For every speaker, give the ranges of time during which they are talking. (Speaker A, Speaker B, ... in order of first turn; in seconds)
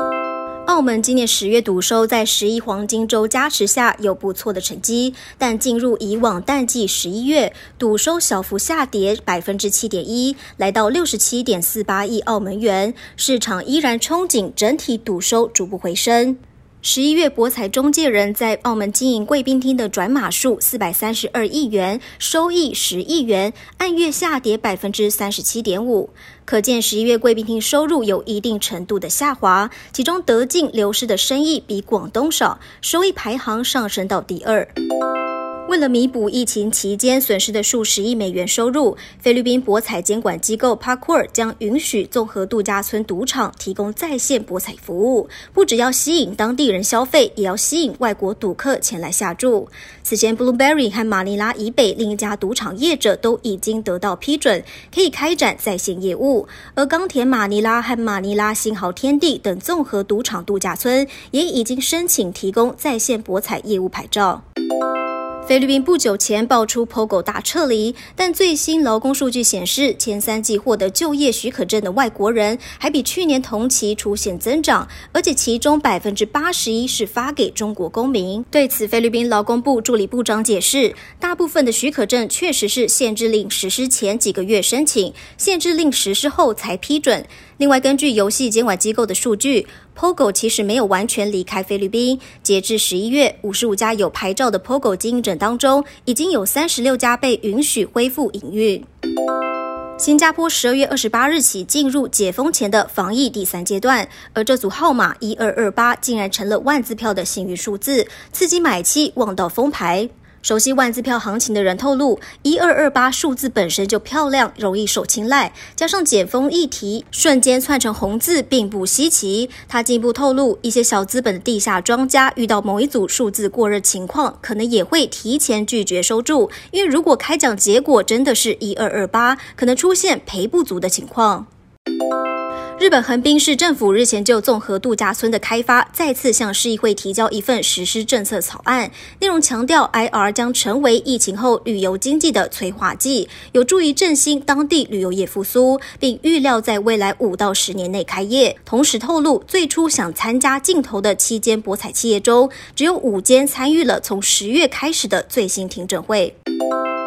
Speaker A: 0.7-34.7, 35.7-64.4, 65.5-98.8, 100.0-131.5, 132.8-156.3